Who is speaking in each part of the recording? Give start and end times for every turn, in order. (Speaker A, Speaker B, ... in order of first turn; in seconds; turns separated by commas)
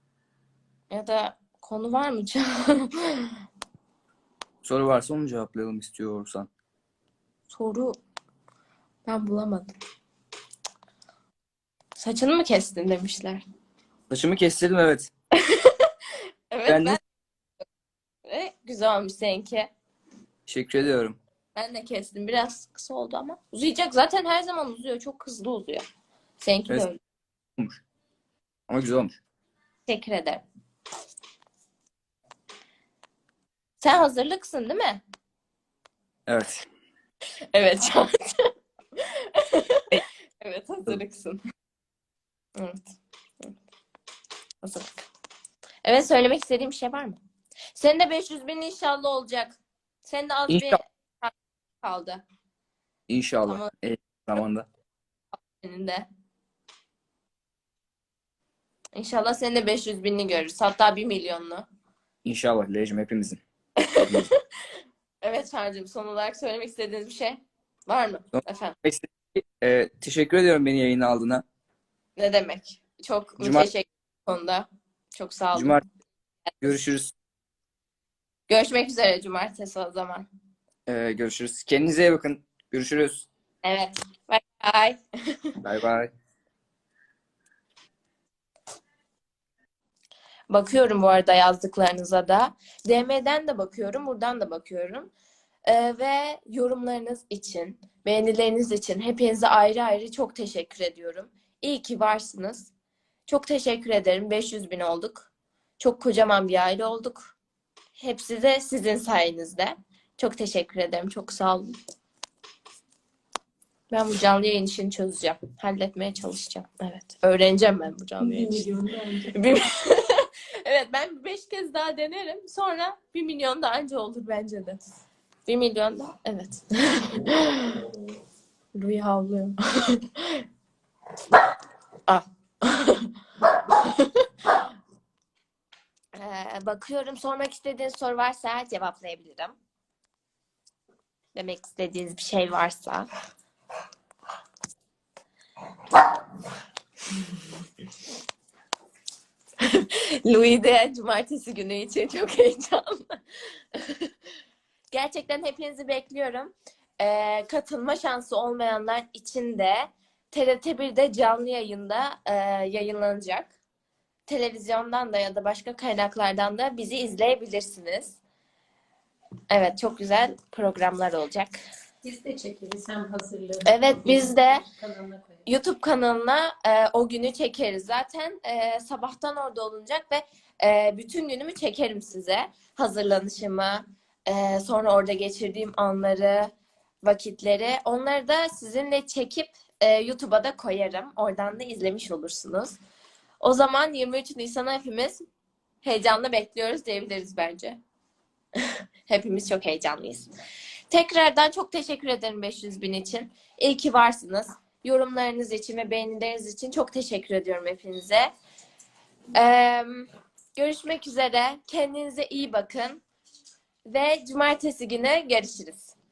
Speaker A: 0.9-3.4, Speaker B: 4.6-6.5, Speaker A: 7.5-8.0, Speaker A: 9.1-9.8, Speaker A: 12.0-13.4, Speaker B: 14.1-15.1, Speaker A: 15.4-15.9, Speaker A: 16.5-17.0, Speaker B: 16.7-17.0, Speaker A: 18.2-19.7, Speaker B: 20.5-21.2, Speaker A: 21.6-25.9, Speaker A: 26.4-27.0, Speaker B: 28.7-29.2, Speaker A: 29.9-30.4, Speaker A: 33.8-35.0, Speaker B: 36.3-36.6, Speaker A: 37.5-41.4, Speaker A: 42.6-42.8, Speaker A: 44.6-45.0, Speaker A: 45.9-47.2, Speaker A: 47.8-52.2, Speaker B: 50.5-50.8, Speaker B: 53.1-54.7, Speaker A: 55.4-56.1, Speaker A: 59.0-61.7, Speaker B: 62.2-63.4, Speaker A: 63.8-64.4, Speaker B: 64.0-64.3, Speaker A: 65.2-68.8, Speaker B: 68.8-71.5, Speaker A: 72.2-74.7, Speaker B: 73.4-73.7, Speaker A: 75.2-75.8, Speaker B: 75.5-75.8, Speaker B: 76.6-77.2, Speaker A: 78.5-80.3, Speaker B: 80.9-83.3, Speaker A: 83.6-85.5, Speaker B: 85.6-86.1, Speaker A: 90.5-95.1, Speaker A: 95.7-102.7, Speaker A: 103.3-107.3, Speaker A: 108.0-111.8, Speaker A: 113.9-124.8, Speaker C: 118.2-119.4, Speaker A: 125.5-127.9, Speaker A: 128.8-130.4, Speaker A: 132.1-134.6, Speaker A: 136.2-139.6, Speaker A: 141.3-143.1, Speaker A: 149.6-154.1, Speaker A: 154.9-163.6, Speaker A: 164.3-168.2, Speaker A: 169.5-171.6, Speaker C: 172.0-175.4, Speaker A: 173.6-174.6, Speaker A: 175.5-186.5, Speaker A: 187.0-192.8, Speaker A: 193.4-195.2, Speaker A: 195.8-197.8, Speaker A: 198.6-200.3, Speaker A: 200.9-208.3, Speaker A: 209.3-213.0, Speaker A: 213.9-215.9